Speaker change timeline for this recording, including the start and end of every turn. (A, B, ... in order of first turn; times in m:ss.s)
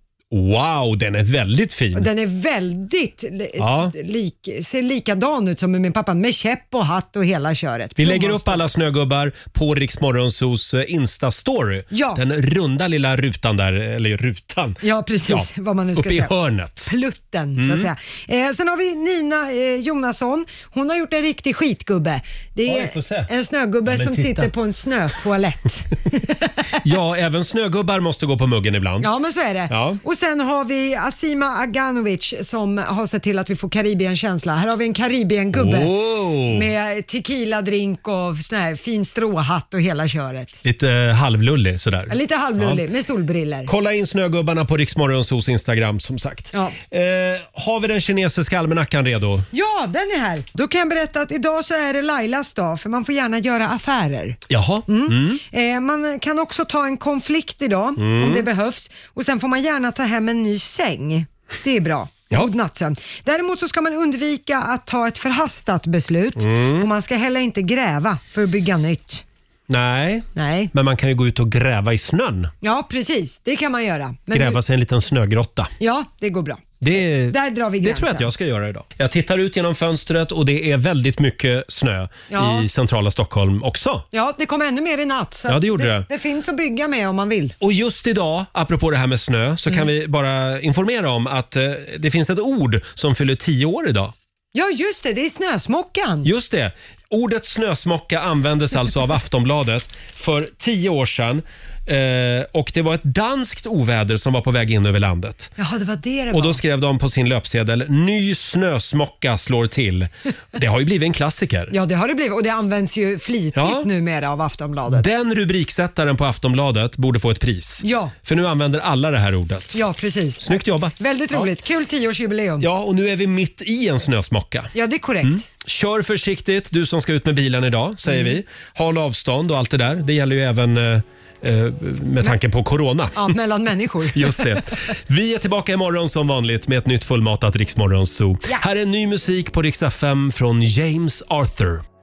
0:00.3-0:02.1 A
0:02.0-0:08.7 B
0:03.6-0:03.9 A
0:08.0-0:16.9 A
0:11.9-0:12.2 B
0:14.8-0:26.8 B
0:17.6-0:17.9 A
0:22.7-0:23.3 A
0:23.9-0:24.5 A
0:26.8-0:29.1 A
0:29.0-0:40.6 B
0:29.7-0:30.0 A
0:35.5-0:36.7 A
0:40.6-0:42.8 A
0:42.1-0:43.7 B
0:43.7-0:49.5 A
0:49.5-1:09.2 B
0:54.5-0:55.4 A
0:58.0-0:58.5 A
1:06.4-1:06.9 A
1:09.7-1:12.5 A
1:10.4-1:10.7 B
1:12.6-1:14.6 B
1:14.3-1:15.7 A
1:15.8-1:18.3 B
1:16.8-1:24.0 A
1:22.3-1:22.7 B
1:24.1-1:27.6 B
1:25.5-1:26.1 A
1:27.6-1:34.1 A
1:34.5-1:36.3 B
1:36.2-1:45.5 A
1:45.6-1:46.6 B
1:46.3-1:51.7 A
1:51.7-1:55.1 B
1:53.5-1:53.9 A
1:54.9-1:59.8 A
1:57.8-1:58.1 B
1:59.7-2:02.7 B
2:00.4-2:01.5 A
2:02.6-2:04.7 A
2:04.7-2:05.5 B
2:05.2-2:13.3 A
2:08.1-2:08.4 B
2:13.2-2:14.6 B
2:14.1-2:21.8 A